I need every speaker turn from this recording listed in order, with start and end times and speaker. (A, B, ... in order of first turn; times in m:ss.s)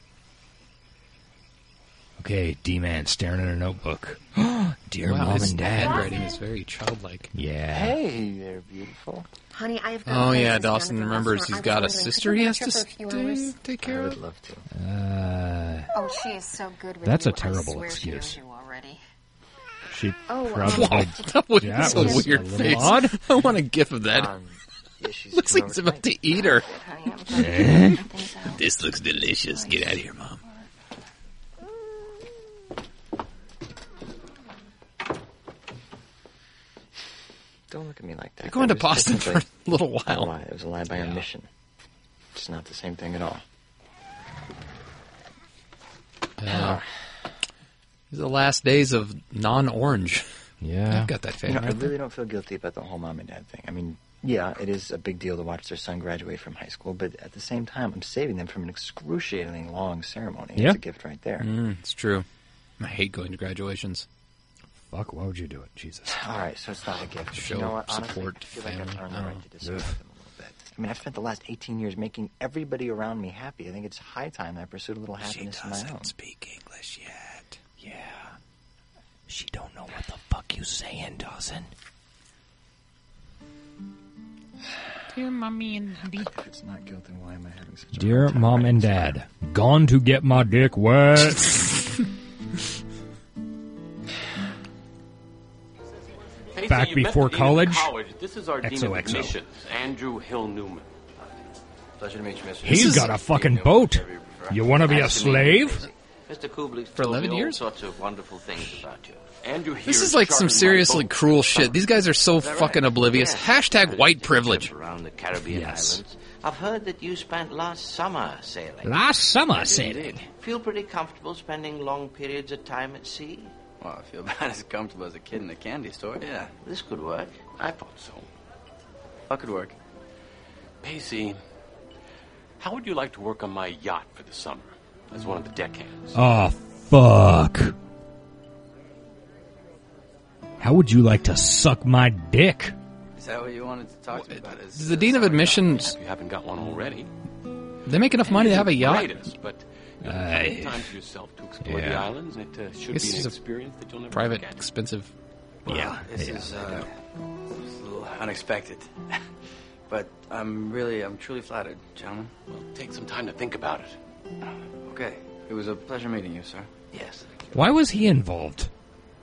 0:02.2-0:06.1 A
0:05.0-0:07.3 B
0:05.8-0:06.3 C
0:07.3-0:08.0 A
0:07.7-0:09.3 D
0:09.5-0:13.6 C
0:10.0-0:14.2 B
0:13.8-0:14.6 D
0:14.7-0:15.9 A
0:15.9-0:19.0 C
0:17.0-0:18.4 A
0:19.9-0:23.2 A
0:20.3-0:22.8 C
0:20.6-0:24.3 B
0:24.1-0:26.4 D
0:25.3-0:26.6 B
0:26.5-0:28.6 C
0:27.3-0:28.0 A
0:28.5-0:30.4 B
0:29.5-0:30.0 C
0:37.7-0:39.5 D
0:38.4-0:40.3 B
0:40.0-0:41.5 D
0:40.9-0:41.2 B
0:42.3-0:43.4 D
0:46.4-0:46.8 B
0:46.5-0:46.8 D
0:48.1-0:50.3 B
0:50.6-0:51.8 A
0:50.9-0:51.8 B
0:51.4-1:01.5 D
1:01.4-1:02.2 B
1:02.8-1:04.0 B
1:04.9-1:06.2 A
1:06.0-1:16.1 D
1:07.3-1:09.4 B
1:09.6-1:09.9 A
1:15.2-1:17.4 B
1:17.8-1:18.3 A
1:19.3-1:21.7 A
1:25.2-1:26.0 B
1:26.1-1:29.2 D
1:28.0-1:31.6 A
1:36.5-1:40.9 E
1:36.7-1:37.9 A
1:38.6-1:39.4 A
1:42.0-1:45.7 F
1:42.6-1:45.8 A
1:42.6-1:43.1 B
1:44.8-1:49.2 G
1:46.9-1:47.6 B
1:49.4-1:51.7 E
1:49.8-1:54.7 B
1:52.4-1:59.0 G
1:55.5-1:56.0 A
1:58.8-2:00.2 A
1:59.5-2:00.2 F
2:00.4-2:03.5 G
2:03.8-2:06.5 F
2:06.6-2:07.5 G
2:07.5-2:08.3 E
2:09.3-2:09.8 F
2:10.8-2:11.4 E
2:12.6-2:16.2 E
2:16.1-2:17.8 A
2:20.6-2:22.7 A
2:23.1-2:25.6 F
2:24.6-2:26.0 B
2:25.6-2:27.1 E
2:27.8-2:29.2 B
2:28.2-2:34.7 E
2:30.0-2:30.9 A
2:31.6-2:32.1 A
2:32.9-2:33.4 B
2:34.1-2:35.1 B
2:35.6-2:36.9 A
2:35.7-2:36.9 F
2:37.5-2:39.2 F
2:39.9-2:42.3 F
2:42.5-2:44.0 E
2:44.8-2:47.2 F
2:47.5-2:48.7 A